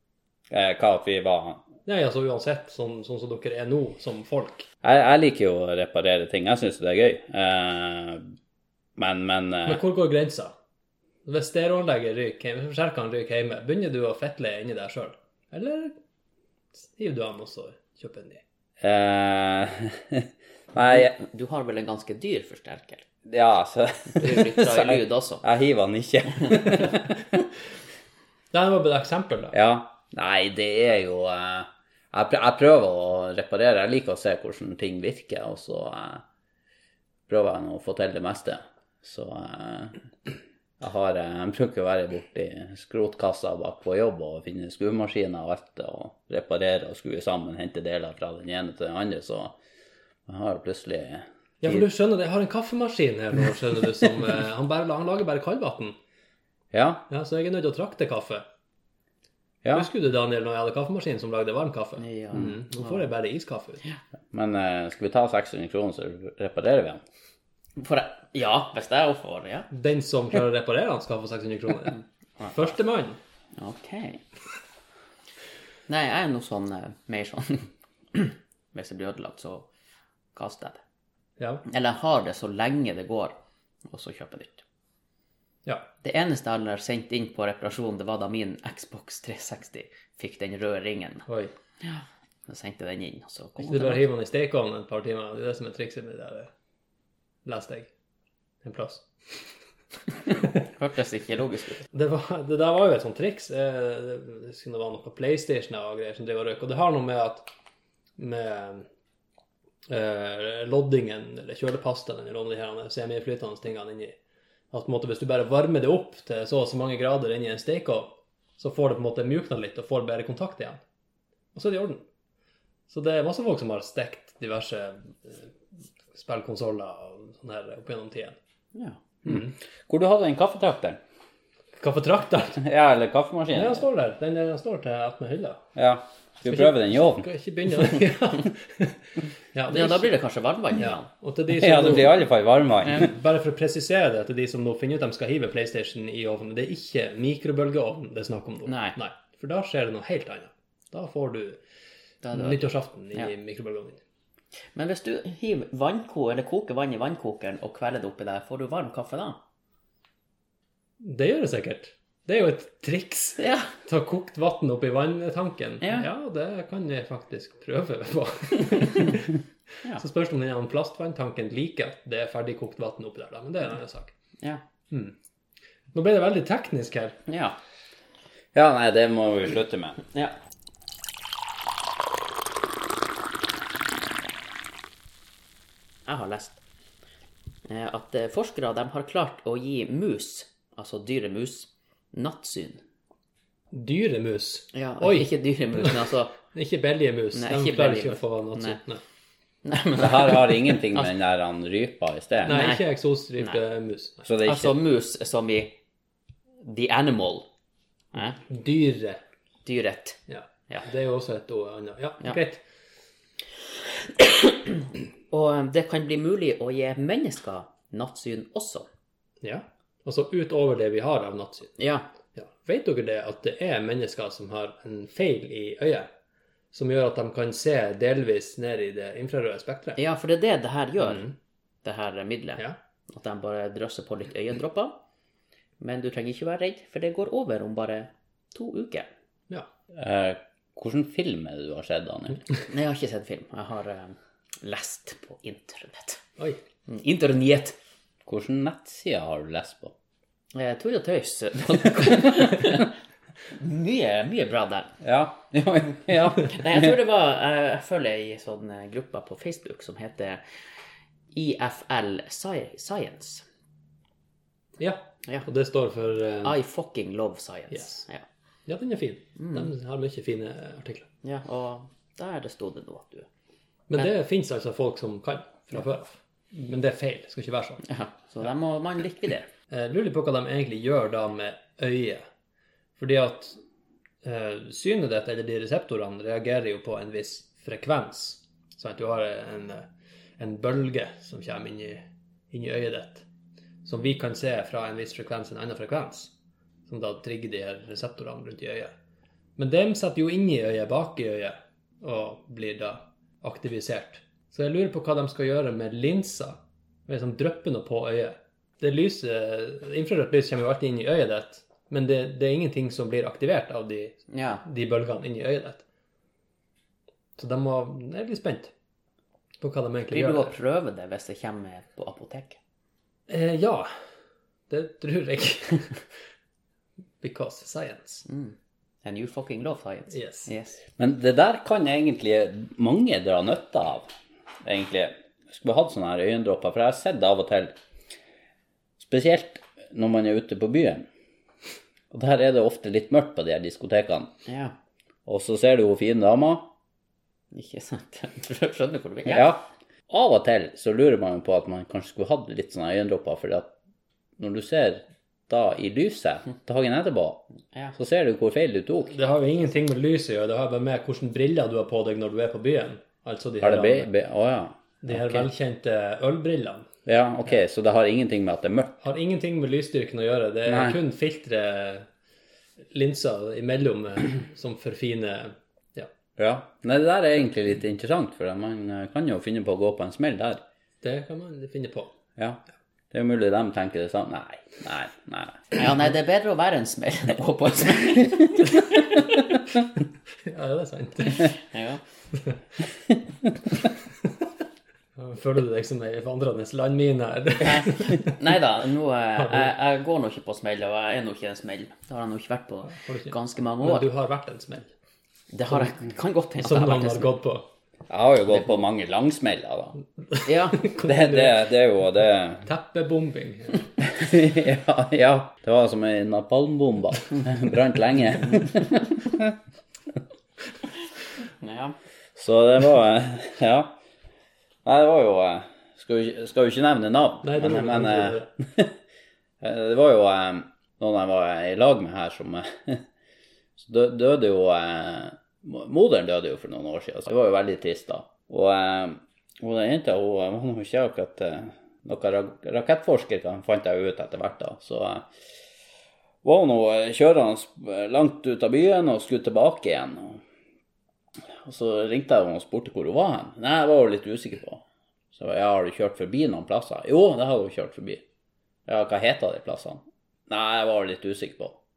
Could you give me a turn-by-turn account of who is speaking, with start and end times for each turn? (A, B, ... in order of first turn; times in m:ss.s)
0:00.5-0:01.7 A
0:01.9-0:04.7 B
0:04.8-0:08.3 A
0:09.0-0:09.8 A
0:09.7-0:10.6 B
0:11.2-0:16.0 B
0:16.8-0:18.4 B
0:18.8-0:21.1 A
0:20.8-0:23.0 C
0:23.3-0:27.4 A
0:24.1-0:25.4 C
0:28.5-0:29.5 B
0:29.5-0:36.2 A
0:37.3-0:40.0 A
0:40.8-0:49.6 A
0:50.3-0:51.8 A
0:51.6-0:56.0 B
0:56.7-0:57.1 A
0:57.1-0:58.4 B
0:59.6-0:59.9 A
0:59.7-1:03.8 B
1:02.0-1:03.1 C
1:04.3-1:07.0 A
1:07.8-1:09.7 C
1:09.7-1:13.2 B
1:13.6-1:14.2 C
1:15.9-1:19.7 C
1:20.4-1:20.8 C
1:21.4-1:21.6 B
1:21.6-1:23.4 C
1:23.9-1:24.6 C
1:26.0-1:31.3 C
1:31.8-1:34.0 C
1:33.6-1:36.5 B
1:37.4-1:37.9 B
1:38.6-1:39.5 B
1:40.6-1:41.8 C
1:41.9-1:47.5 B
1:48.2-1:48.9 B
1:49.9-1:54.2 B
1:54.7-2:00.8 B
2:01.6-2:02.0 B
2:02.9-2:05.5 B
2:06.1-2:08.4 B
2:08.7-2:09.0 C
2:09.3-2:11.0 A
2:11.8-2:12.6 B
2:12.6-2:13.9 A
2:13.5-2:15.7 B
2:15.8-2:17.3 A
2:16.4-2:19.0 B
2:19.5-2:20.1 B
2:19.7-2:21.1 C
2:20.8-2:22.2 B
2:21.5-2:23.1 A
2:22.9-2:31.6 B
2:28.7-2:29.0 C
2:32.2-2:32.6 C
2:32.3-2:34.0 B
2:34.8-2:39.4 C
2:41.0-2:49.4 B
2:43.4-2:43.7 C
2:45.8-2:46.1 C
2:49.9-2:54.1 B
2:55.9-2:57.2 B
2:57.3-2:57.6 C
2:58.5-3:00.0 A
3:06.1-3:06.6 C
3:07.7-3:12.8 C
3:13.7-3:19.0 B
3:14.7-3:16.4 C
3:17.3-3:18.8 C
3:19.6-3:21.1 C
3:20.0-3:22.6 A
3:22.5-3:22.8 C
3:22.5-3:24.3 B
3:24.2-3:24.8 A
3:24.4-3:25.8 C
3:26.6-3:27.5 C
3:28.5-3:29.2 B
3:29.6-3:30.9 C
3:30.3-3:32.6 B
3:34.2-3:38.9 C
3:39.4-3:41.7 B
3:41.8-3:42.1 C
3:42.4-3:46.1 B
3:46.7-3:50.0 B
3:50.0-3:51.3 C
3:51.0-3:51.3 B
3:51.8-3:55.0 C
3:55.8-3:59.1 C
3:59.9-4:02.4 A
4:02.7-4:06.2 C
4:06.9-4:07.8 C
4:08.2-4:09.9 A
4:10.5-4:12.9 C
4:13.5-4:14.9 C
4:15.0-4:16.9 A
4:16.5-4:20.4 C
4:21.3-4:23.4 C
4:24.8-4:26.6 B
4:26.4-4:28.2 C
4:27.7-4:28.1 B
4:28.7-4:31.1 B
4:29.4-4:29.7 C
4:31.2-4:33.3 C
4:33.9-4:37.8 B
4:37.8-4:39.5 C
4:39.7-4:42.2 B
4:43.0-4:43.6 B
4:44.2-4:49.9 B
4:50.4-4:53.3 B
4:53.8-4:56.3 B
4:56.9-4:58.9 B
4:59.6-5:15.8 B
5:14.3-5:14.6 C
5:17.4-5:18.7 B
5:19.6-5:20.6 B
5:20.1-5:22.6 C
5:23.3-5:23.9 B
5:24.7-5:26.0 B
5:27.2-5:28.3 B
5:28.3-5:30.8 C
5:30.1-5:30.5 B
5:31.0-5:34.1 A
5:34.6-5:37.8 A
5:39.0-5:41.1 A
5:42.1-5:44.3 A
5:44.5-5:44.8 C
5:45.3-5:46.7 A
5:47.5-5:49.6 C
5:49.3-5:53.8 A
5:54.4-5:57.4 A
5:58.0-5:59.2 A
5:59.1-6:04.1 B
6:03.6-6:05.4 A
6:05.0-6:06.9 B
6:07.1-6:09.0 A
6:09.0-6:12.1 B
6:10.7-6:11.0 A
6:12.9-6:16.1 B
6:16.4-6:20.6 A
6:21.0-6:22.1 B
6:22.4-6:25.6 A
6:25.7-6:29.3 C
6:30.4-6:31.5 B
6:31.4-6:32.0 C
6:35.2-6:38.4 B
6:37.6-6:44.1 C
6:39.5-6:39.7 B
6:42.9-6:44.9 B
6:45.5-6:47.4 C
6:46.6-6:47.7 B
6:48.1-6:50.0 A
6:50.4-6:50.9 C
6:50.8-6:51.6 B
6:51.0-6:52.7 A
6:52.6-6:53.9 B
6:54.0-6:59.6 A
7:01.5-7:02.0 C
7:02.4-7:04.0 A
7:04.8-7:08.9 A
7:07.4-7:08.5 B
7:09.6-7:13.0 A
7:13.8-7:25.3 A
7:26.4-7:30.4 A
7:31.6-7:38.2 A
7:38.9-7:41.8 A